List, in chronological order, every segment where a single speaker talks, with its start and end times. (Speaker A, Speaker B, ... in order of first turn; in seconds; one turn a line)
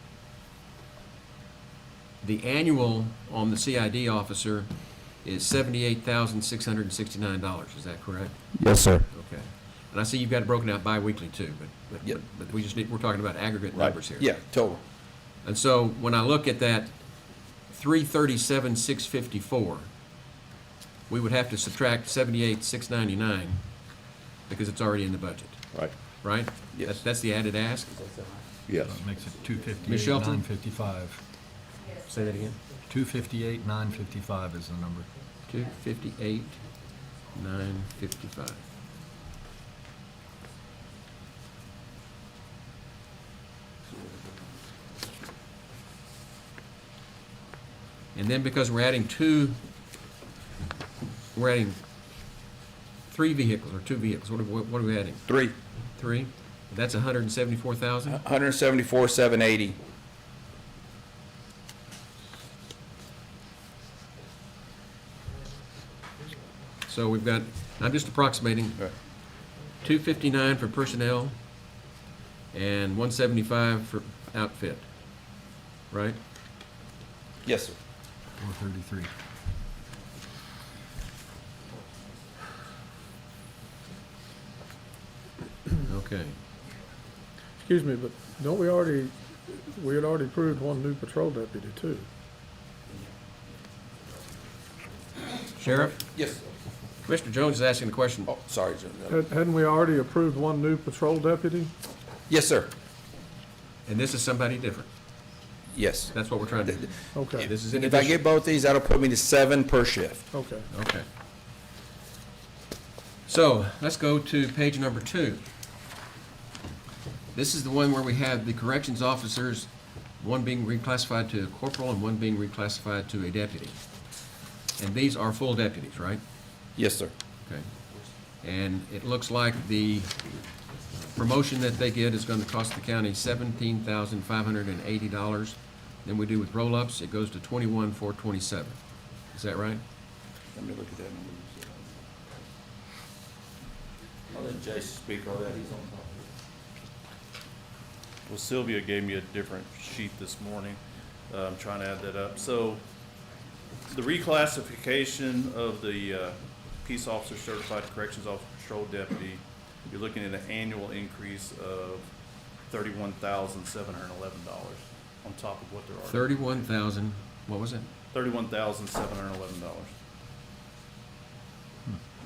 Speaker A: 2.2-8.3
Speaker B: 8.6-9.1
Speaker A: 9.1-14.3
Speaker B: 14.1-14.8
Speaker A: 15.4-19.9
Speaker A: 21.1-23.6
Speaker A: 24.5-27.9
Speaker B: 26.7-27.0
Speaker B: 27.9-30.1
Speaker C: 28.8-31.2
Speaker A: 29.8-30.4
Speaker A: 32.0-32.6
Speaker C: 32.9-35.1
Speaker A: 35.5-36.6
Speaker A: 37.3-38.6
Speaker A: 48.1-49.6
Speaker A: 51.3-51.8
Speaker A: 53.1-55.2
Speaker B: 55.3-55.5
Speaker A: 56.0-58.2
Speaker B: 58.0-59.8
Speaker A: 66.9-68.9
Speaker A: 69.8-71.4
Speaker A: 72.5-74.9
Speaker A: 75.9-76.2
Speaker B: 77.4-77.8
Speaker C: 78.4-79.1
Speaker A: 85.8-86.4
Speaker D: 87.6-92.1
Speaker A: 95.6-96.0
Speaker B: 96.0-96.4
Speaker A: 97.0-98.3
Speaker B: 98.3-99.2
Speaker D: 99.1-101.7
Speaker B: 102.3-102.7
Speaker A: 103.8-104.9
Speaker B: 105.7-106.1
Speaker A: 106.1-108.2
Speaker D: 107.1-107.5
Speaker B: 107.6-110.2
Speaker D: 110.3-110.7
Speaker A: 110.7-111.0
Speaker A: 113.3-115.4
Speaker A: 117.3-123.8
Speaker A: 124.8-126.2
Speaker B: 126.8-127.1
Speaker A: 128.4-130.1
Speaker A: 131.1-138.8
Speaker A: 139.3-139.8
Speaker B: 140.5-141.8
Speaker B: 144.3-146.1
Speaker E: 148.3-150.8
Speaker E: 151.3-152.8
Speaker E: 153.9-162.1
Speaker E: 162.7-166.6
Speaker A: 166.0-167.9
Speaker E: 168.1-169.9